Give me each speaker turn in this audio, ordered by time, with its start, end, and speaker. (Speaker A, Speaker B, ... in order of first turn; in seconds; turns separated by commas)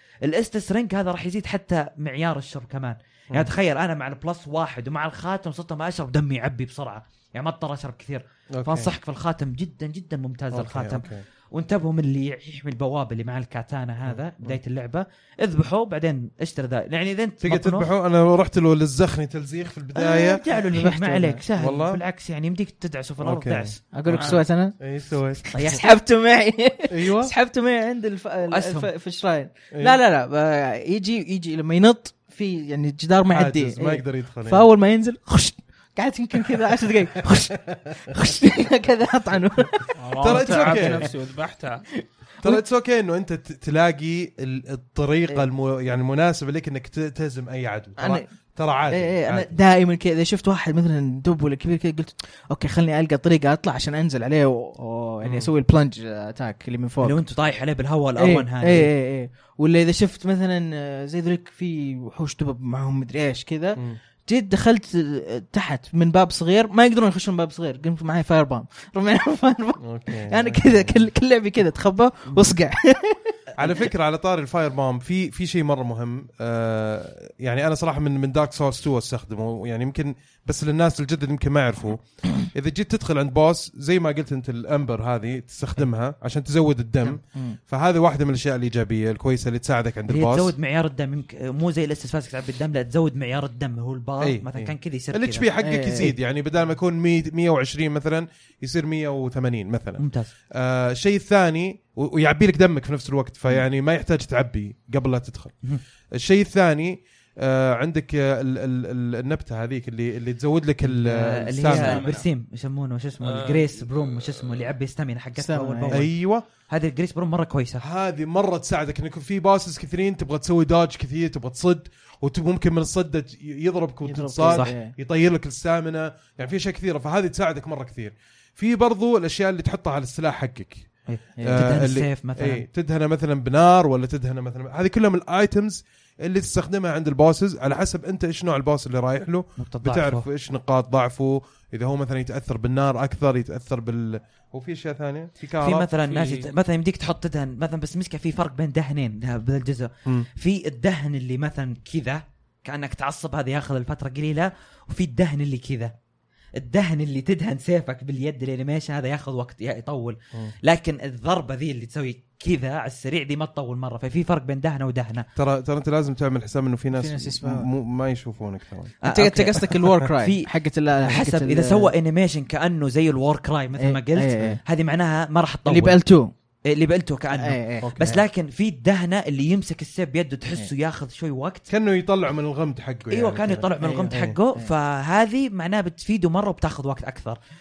Speaker A: 0.2-17.9, Speaker B: 8.5-8.9, Speaker B: 10.5-11.2, Speaker B: 14.1-14.6, Speaker B: 17.4-20.4, Speaker A: 19.9-23.8, Speaker C: 20.5-21.4, Speaker B: 21.6-22.0, Speaker B: 23.2-25.5, Speaker C: 23.9-24.8, Speaker D: 24.1-24.4, Speaker A: 25.5-25.8, Speaker C: 25.5-40.9, Speaker B: 26.9-27.3, Speaker A: 28.5-28.9, Speaker B: 29.7-30.0, Speaker B: 33.3-34.7, Speaker D: 40.0-41.8, Speaker B: 40.2-41.1, Speaker B: 42.4-49.5, Speaker C: 48.0-48.3, Speaker C: 48.9-57.2, Speaker B: 55.2-55.5, Speaker A: 57.0-58.9, Speaker C: 58.2-73.8, Speaker B: 69.8-71.1, Speaker B: 73.5-90.5, Speaker C: 87.0-87.6, Speaker A: 90.1-95.5, Speaker B: 94.2-105.5, Speaker C: 95.6-96.1, Speaker A: 100.0-100.3, Speaker B: 106.1-112.0, Speaker A: 110.8-116.1, Speaker D: 111.7-112.2, Speaker D: 113.2-114.7, Speaker C: 115.4-116.0, Speaker B: 115.9-116.4, Speaker A: 116.7-117.8, Speaker B: 117.8-145.9, Speaker C: 124.0-124.9, Speaker A: 124.5-124.7, Speaker A: 131.1-132.6, Speaker C: 131.4-131.7, Speaker A: 139.6-140.2, Speaker A: 145.6-155.9, Speaker D: 146.0-146.5, Speaker A: 156.6-165.3, Speaker B: 165.3-168.9, Speaker C: 166.9-167.7, Speaker A: 169.0-170.5, Speaker C: 169.1-171.9, Speaker A: 171.0-176.0, Speaker C: 173.8-174.6, Speaker C: 175.7-176.3, Speaker A: 176.7-181.7, Speaker C: 177.3-178.2, Speaker B: 177.8-178.2, Speaker B: 181.7-184.3, Speaker A: 183.1-187.4, Speaker C: 183.8-184.7